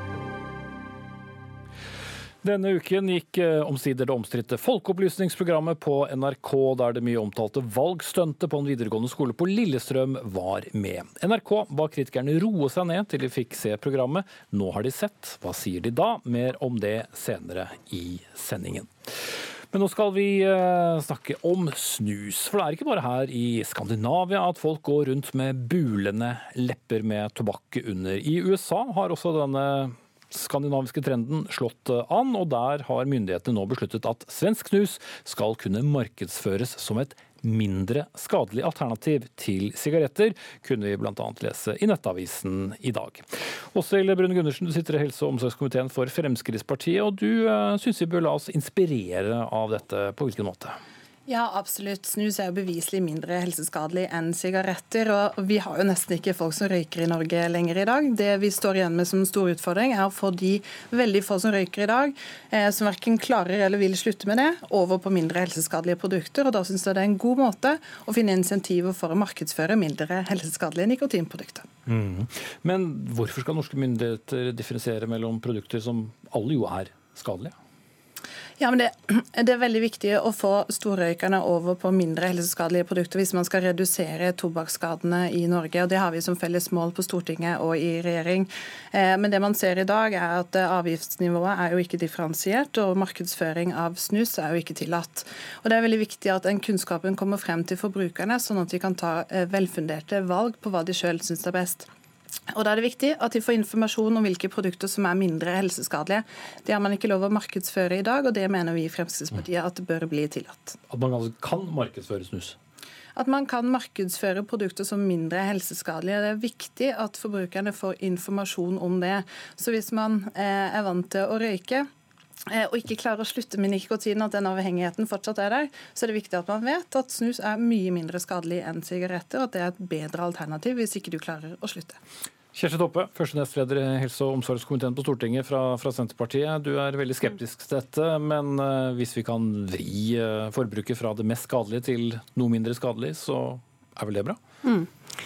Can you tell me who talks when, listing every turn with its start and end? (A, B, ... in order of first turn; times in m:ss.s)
0:02.4-0:50.8 A
0:51.3-1:11.7 B
1:11.9-1:17.6 A
1:18.6-1:41.9 B
1:42.5-1:50.8 B
1:50.9-1:52.6 A
1:53.2-2:01.9 B
2:02.5-2:12.0 B
2:12.5-2:24.4 A